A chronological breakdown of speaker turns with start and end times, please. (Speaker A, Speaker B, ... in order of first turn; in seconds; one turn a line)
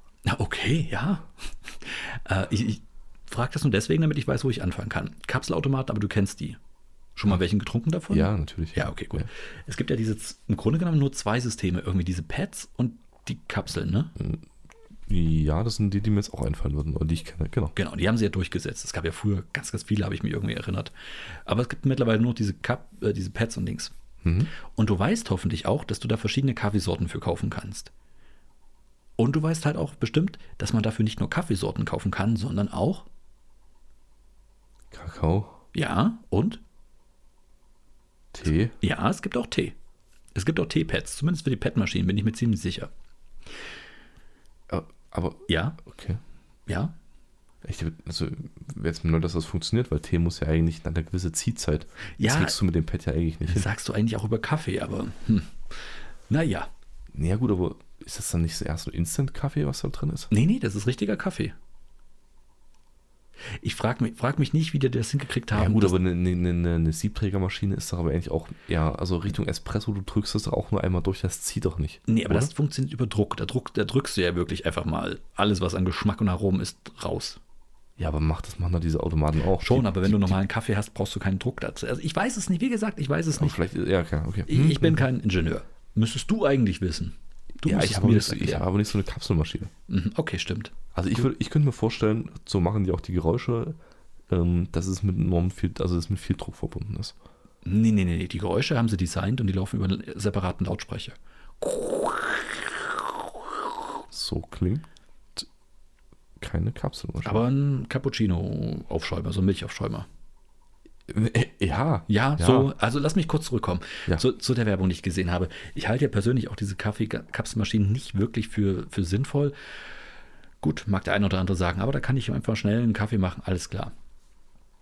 Speaker A: 0.2-6.6
Speaker A: 7.2-14.1
Speaker B: 8.1-9.3
Speaker B: 14.2-14.4
Speaker B: 15.1-17.7
Speaker A: 17.7-20.9
Speaker A: 21.4-23.9
Speaker B: 24.2-24.5
Speaker A: 24.6-27.9
Speaker A: 29.2-33.1
Speaker B: 34.9-35.6
Speaker A: 35.7-36.6
Speaker B: 38.3-38.8
Speaker A: 38.8-39.7
Speaker A: 40.3-42.9
Speaker B: 44.7-46.2
Speaker A: 45.5-45.8
Speaker A: 46.7-46.9
Speaker B: 47.6-53.7
Speaker A: 52.2-52.6
Speaker A: 53.5-56.7
Speaker B: 57.1-60.3
Speaker A: 60.3-61.5
Speaker A: 63.5-66.0
Speaker B: 65.5-72.5
Speaker A: 72.1-77.4
Speaker B: 78.0-80.4
Speaker A: 79.6-83.6
Speaker B: 83.4-85.0
Speaker A: 84.5-88.7
Speaker B: 87.6-89.7
Speaker A: 89.9-90.7
Speaker B: 90.9-93.8
Speaker B: 94.3-97.1
Speaker A: 97.6-103.1
Speaker B: 104.1-104.8
Speaker B: 106.4-107.4
Speaker A: 107.2-110.1
Speaker B: 111.1-112.7
Speaker A: 112.1-119.5
Speaker A: 120.6-123.9